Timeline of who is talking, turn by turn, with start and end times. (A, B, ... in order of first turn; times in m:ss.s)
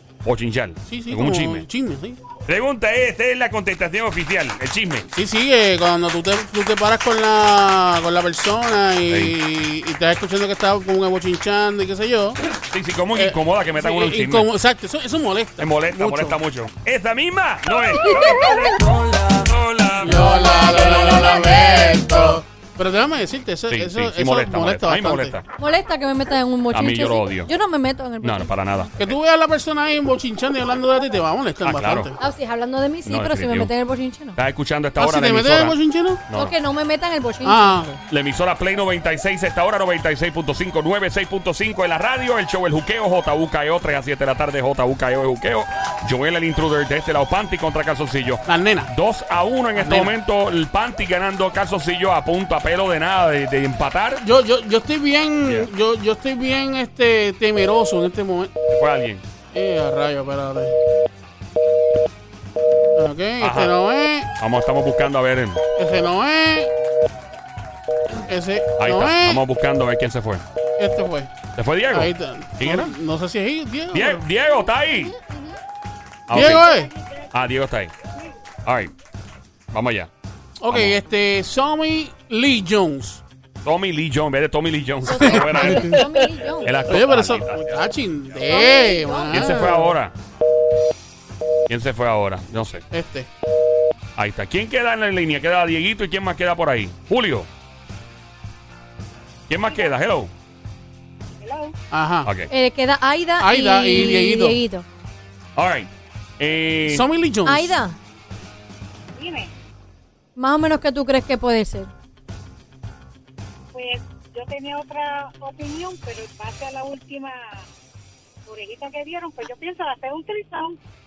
0:00.2-0:01.6 A
0:00.9-0:02.2 B
0:02.4-0:05.1 A
0:05.1-0:12.4 B
0:09.1-0:09.3 A
0:12.5-0:14.5 A
0:13.1-0:16.4 B
0:15.6-0:21.5 A
0:18.0-0:18.8 C
0:20.0-0:25.3 B
0:20.3-0:22.0 C
0:23.7-0:25.4 A
0:25.6-0:28.9 C
0:26.7-0:27.5 A
0:28.2-0:29.1 A
0:29.0-0:32.2 B
0:31.6-0:32.1 A
0:32.2-0:34.4 C
0:33.0-0:33.7 A
0:34.4-0:35.8 A
0:35.0-0:36.2 B
0:36.3-0:36.5 A
0:36.3-0:37.7 C
0:37.4-0:38.0 B
0:38.1-0:54.2 A
0:48.5-0:48.9 B
0:49.8-0:50.1 B
0:54.2-0:58.5 B
0:58.7-0:59.2 A
0:59.5-1:00.8 B
1:02.9-1:04.3 B
1:03.4-1:03.7 A
1:04.4-1:05.6 A
1:05.8-1:06.7 B
1:08.1-1:09.4 B
1:08.8-1:10.4 A
1:10.8-1:11.4 B
1:11.5-1:12.9 A
1:11.9-1:14.2 B
1:13.9-1:15.1 A
1:14.9-1:15.5 C
1:16.3-1:16.8 A
1:16.3-1:16.9 B
1:17.3-1:17.9 A
1:18.6-1:18.9 A
1:19.7-1:20.1 A
1:20.6-1:23.2 B
1:20.7-1:21.0 A
1:23.6-1:26.0 A
1:25.0-1:26.7 C
1:25.2-1:26.0 B
1:26.6-1:27.8 A
1:26.8-1:29.9 B
1:28.5-1:29.5 C
1:29.3-1:30.1 A
1:31.7-1:32.8 A
1:32.9-1:33.3 B
1:34.2-1:37.5 A
1:39.5-1:40.3 A
1:39.6-1:39.9 D
1:41.4-1:41.7 D
1:41.9-1:42.3 B
1:42.2-1:42.5 A
1:42.5-1:44.8 C
1:43.4-1:44.6 B
1:45.6-1:47.0 A
1:46.8-1:47.7 B
1:47.4-1:48.0 C
1:49.2-1:49.5 D
1:50.4-1:51.9 C
1:53.7-1:57.6 D
1:58.4-2:00.8 D